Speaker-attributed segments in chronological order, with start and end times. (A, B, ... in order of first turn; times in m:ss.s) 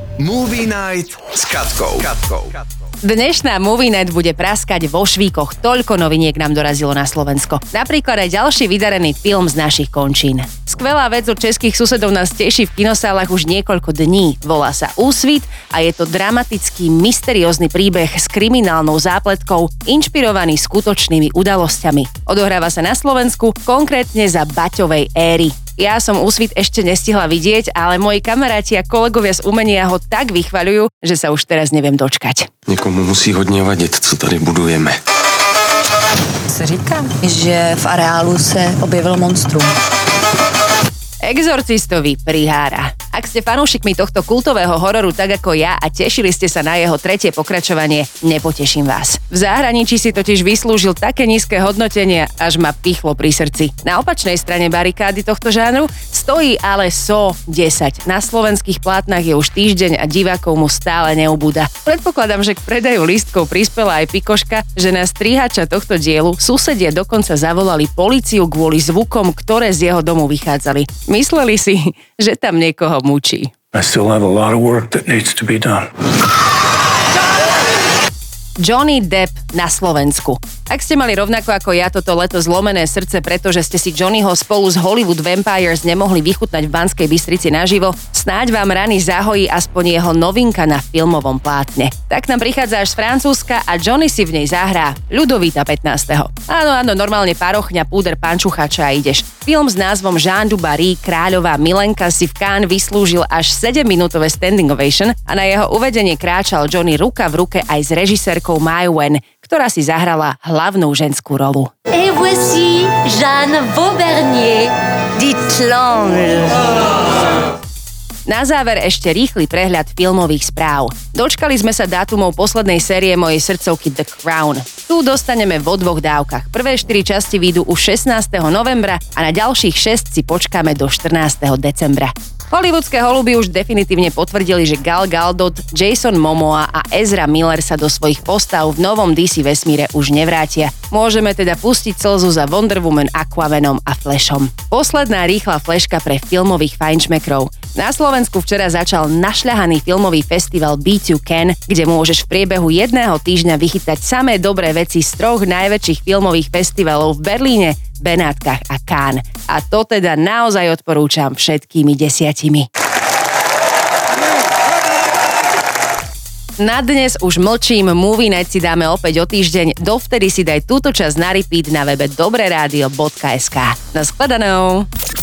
0:00.2-0:02.5 A
0:03.0-0:32.5 B
0:32.7-0:35.0 C
0:36.6-0:39.7 D
0:41.2-1:13.5 B
1:13.7-1:15.9 E
1:18.6-1:51.7 B
1:51.9-1:56.6 F
1:58.2-2:42.7 B
2:46.6-2:54.9 B